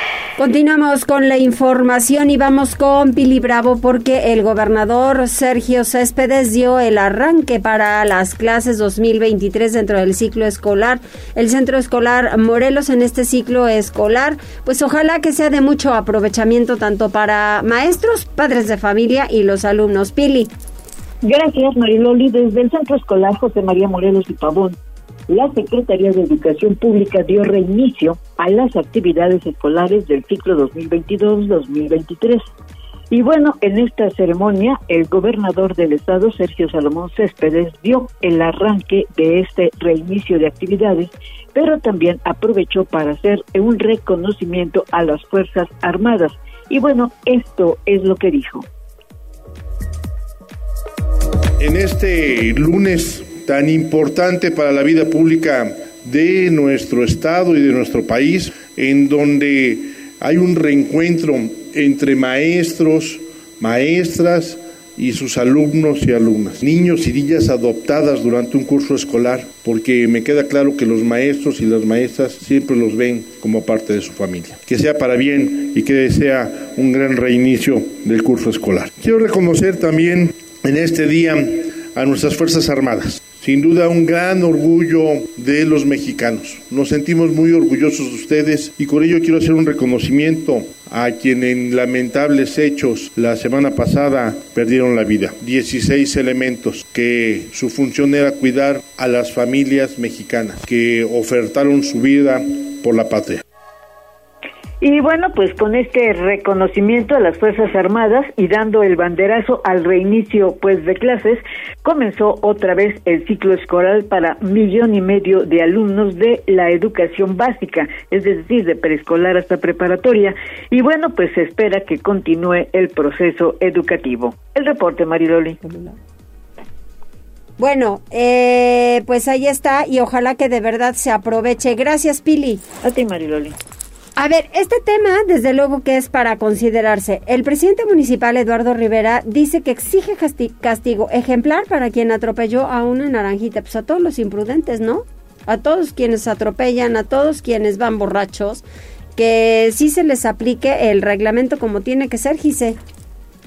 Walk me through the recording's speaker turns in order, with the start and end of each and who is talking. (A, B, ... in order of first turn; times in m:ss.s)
0:00.4-0:20.5 A
0:21.2-0:24.8 B
0:25.3-0:32.4 B
0:33.1-0:48.6 B
0:51.6-1:43.4 C
1:44.8-2:05.6 B
2:05.6-2:05.9 A
2:07.6-2:12.6 A
2:12.8-2:13.6 B
2:14.2-2:28.6 A
2:29.2-2:32.8 A